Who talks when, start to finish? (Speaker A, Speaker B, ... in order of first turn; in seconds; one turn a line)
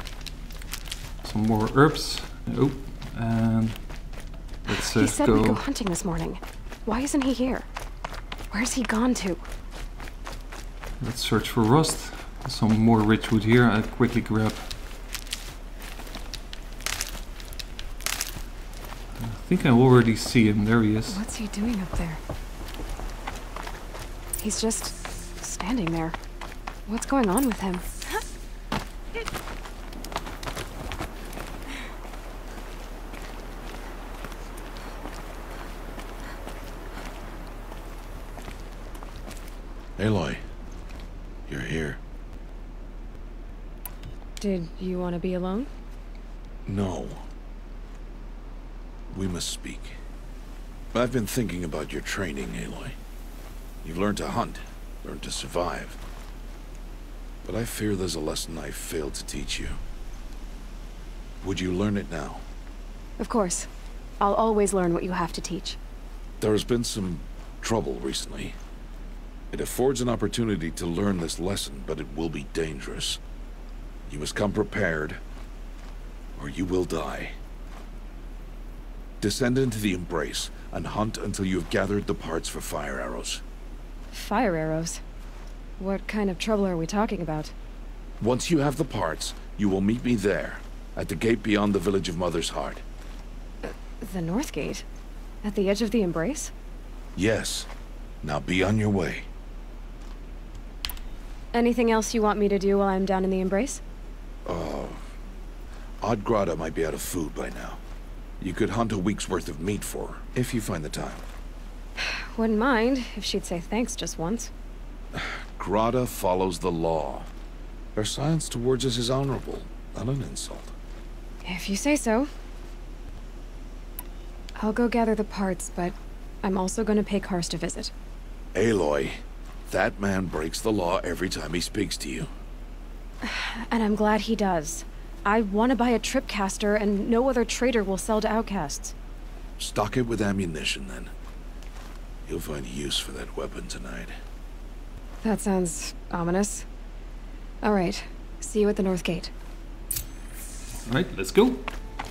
Speaker A: 1.2-5.6
Speaker B: 4.7-7.7
Speaker B: 8.5-9.4
Speaker A: 11.0-14.7
Speaker A: 19.2-21.2
Speaker B: 21.1-22.2
Speaker B: 24.4-26.1
Speaker B: 26.9-27.9
Speaker C: 40.0-40.4
Speaker C: 41.5-42.0
Speaker B: 44.4-45.7
Speaker C: 46.6-47.2
Speaker C: 49.1-50.0
Speaker C: 50.9-53.0
Speaker C: 53.8-56.0
Speaker C: 57.4-59.8
Speaker C: 61.4-62.4
Speaker B: 63.2-63.7
Speaker B: 64.2-65.8
Speaker C: 66.4-68.5
Speaker C: 69.5-73.2
Speaker C: 74.1-75.2
Speaker C: 76.4-77.3
Speaker C: 79.2-83.4
Speaker B: 84.1-85.0
Speaker B: 85.8-87.5
Speaker C: 88.2-92.8
Speaker B: 93.6-94.8
Speaker B: 95.4-96.5
Speaker C: 97.2-97.7
Speaker C: 98.2-99.3
Speaker B: 101.5-103.8
Speaker C: 104.5-105.0
Speaker C: 106.0-107.8
Speaker C: 108.4-111.2
Speaker B: 112.0-114.5
Speaker C: 115.1-117.3
Speaker C: 118.0-120.7
Speaker B: 121.4-122.3
Speaker B: 124.6-127.9
Speaker C: 128.5-132.3
Speaker B: 133.2-138.9
Speaker C: 139.6-141.1
Speaker C: 142.2-144.1
Speaker B: 145.2-146.7
Speaker B: 147.6-149.3
Speaker A: 150.8-151.7